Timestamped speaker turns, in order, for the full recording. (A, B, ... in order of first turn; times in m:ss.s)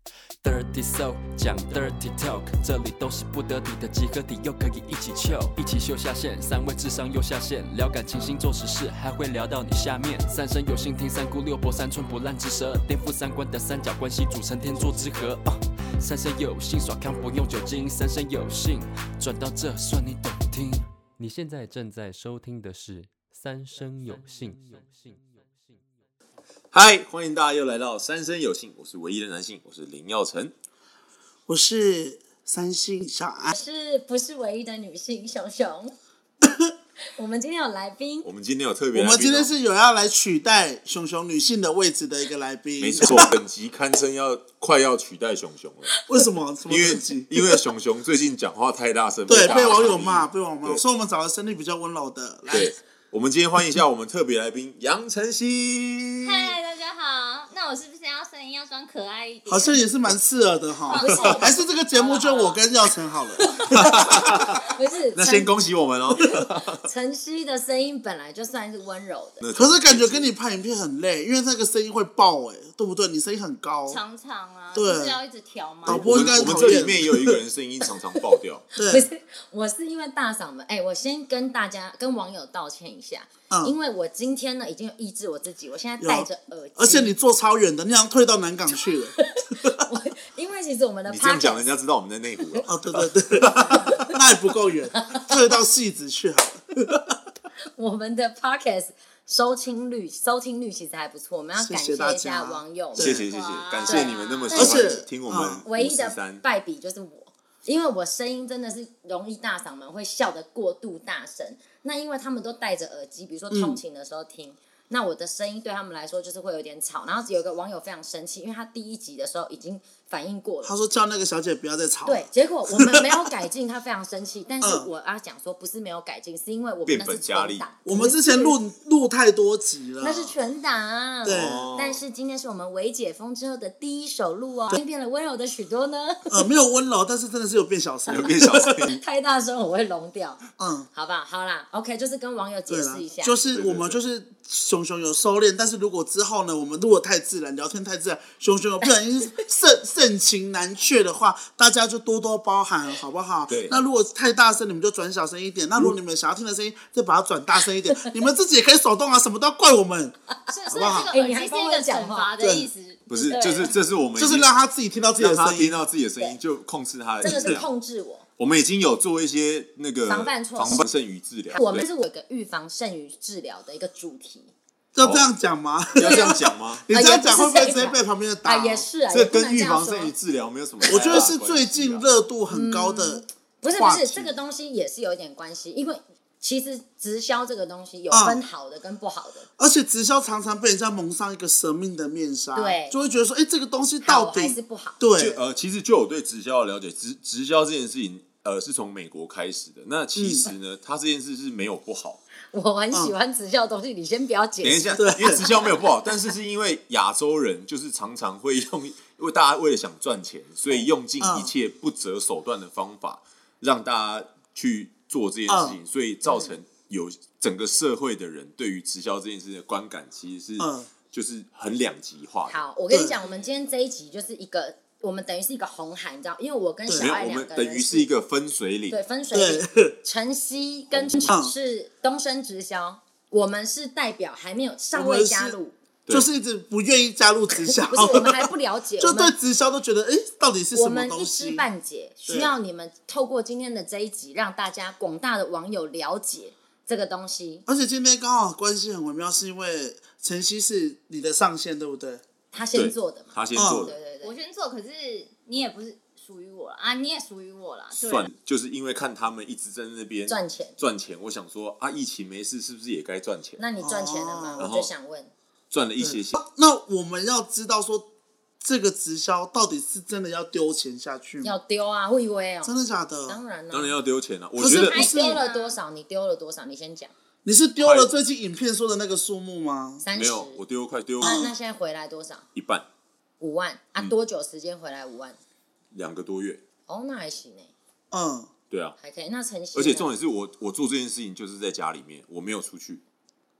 0:00.4-0:25.2 A
0:26.7-0:30.5 B
0:31.5-0:33.6 C
0:33.5-0:35.9 D
0:37.1-0:38.3 D
0:38.2-0:39.5 B
0:38.9-0:43.3 C
0:42.8-0:46.0 B
0:46.1-0:47.4 C
0:46.7-0:50.8 B
0:49.3-0:52.7 C
0:52.5-0:56.5 B
0:56.2-0:59.8 E
0:59.5-1:04.5 C
1:00.9-1:02.6 E
1:01.0-1:01.3 D
1:01.1-1:01.4 B
1:03.6-1:04.6 B
1:04.1-1:05.5 D
1:05.1-1:06.8 B
1:06.1-1:09.4 D
1:09.4-1:10.3 B
1:09.6-1:14.0 C
1:13.9-1:16.5 E
1:14.7-1:15.2 C
1:15.8-1:17.4 C
1:15.8-1:18.7 B
1:18.8-1:19.1 C
1:18.8-1:27.1 D
1:23.5-1:23.8 C
1:26.0-1:29.8 C
1:28.8-1:31.6 D
1:31.1-1:33.1 B
1:32.4-1:32.7 D
1:32.6-1:37.1 C
1:33.5-1:34.1 D
1:33.6-1:33.9 B
1:35.0-1:35.5 D
1:37.8-1:43.2 D
1:41.6-1:43.2 C
1:43.0-1:46.4 B
1:43.3-1:45.0 E
1:43.8-1:45.0 D
1:44.5-1:45.6 C
1:45.6-2:00.7 D
1:53.5-1:53.8 C
2:00.6-2:03.2 C
2:02.0-2:08.6 D
2:04.6-2:04.9 C
2:06.8-2:07.6 B
2:07.8-2:10.3 C
2:10.0-2:16.5 D
2:11.2-2:11.7 C
2:11.2-2:12.0 B
2:16.3-2:18.8 C
2:18.1-2:19.0 B
2:18.1-2:20.4 D
2:20.6-2:20.9 C
2:20.9-2:23.3 D
2:22.7-2:40.1 C
2:23.5-2:24.0 B
2:28.8-2:29.3 D
2:33.5-2:33.8 B
2:40.3-2:42.3 D
2:40.5-2:43.7 E
2:40.7-2:41.1 C
2:42.4-2:42.7 C
2:43.1-2:44.5 B
2:44.2-2:45.8 C
2:45.2-2:47.7 B
2:47.2-2:48.2 D
2:47.2-2:47.6 C
2:48.4-2:51.8 B
2:50.1-2:50.9 D
2:51.5-2:54.5 D
2:54.9-2:58.8 C
2:55.0-2:55.3 B
2:55.9-2:56.8 B
2:56.0-2:56.3 D
2:56.9-3:00.1 D
2:59.1-3:02.0 B
3:00.9-3:04.4 C
3:00.9-3:01.3 D
3:02.5-3:09.5 D
3:08.1-3:08.4 C
3:09.6-3:15.4 C
3:12.5-3:13.0 D
3:14.0-3:15.0 D
3:15.2-3:22.2 B
3:20.2-3:20.5 C
3:22.5-3:26.1 D
3:24.6-3:42.6 B
3:25.0-3:25.4 C
3:31.2-3:31.5 C
3:35.5-3:35.8 C
3:36.2-3:36.5 D
3:40.6-3:40.9 C
3:42.4-3:48.1 D
3:42.9-3:43.2 C
3:43.2-3:43.5 E
3:46.9-3:47.1 C
3:46.9-3:49.0 B
3:48.9-3:55.7 D
3:49.3-3:49.9 C
3:50.9-3:51.3 B
3:51.3-3:51.5 C
3:54.9-3:55.5 C
3:56.1-3:58.4 C
3:57.7-3:59.3 D
3:59.0-4:01.7 C
4:00.7-4:07.6 D
4:02.3-4:02.5 C
4:07.7-4:12.2 C
4:12.5-4:14.4 D
4:12.7-4:13.9 B
4:13.5-4:13.9 C
4:14.2-4:18.3 E
4:17.9-4:23.6 B
4:20.3-4:20.8 D
4:23.6-4:25.3 D
4:23.8-4:24.7 C
4:24.6-4:24.9 B
4:25.7-4:26.4 B
4:26.0-4:28.1 C
4:28.6-4:31.5 C
4:31.4-4:32.7 D
4:32.6-4:33.4 C
4:33.2-4:34.0 D
4:33.7-4:35.1 B
4:34.6-4:35.4 C
4:34.6-4:37.1 D
4:34.9-4:35.8 E
4:37.4-4:40.0 C
4:37.8-4:38.1 B
4:40.0-4:40.6 D
4:40.1-4:41.5 B
4:41.2-4:41.5 C
4:41.2-4:42.4 D
4:42.5-4:42.8 B
4:43.4-4:45.4 D
4:45.9-4:46.6 B
4:46.9-4:47.7 D
4:48.1-4:48.5 C
4:48.7-4:49.0 B
4:49.0-4:50.1 D
4:49.7-4:53.0 B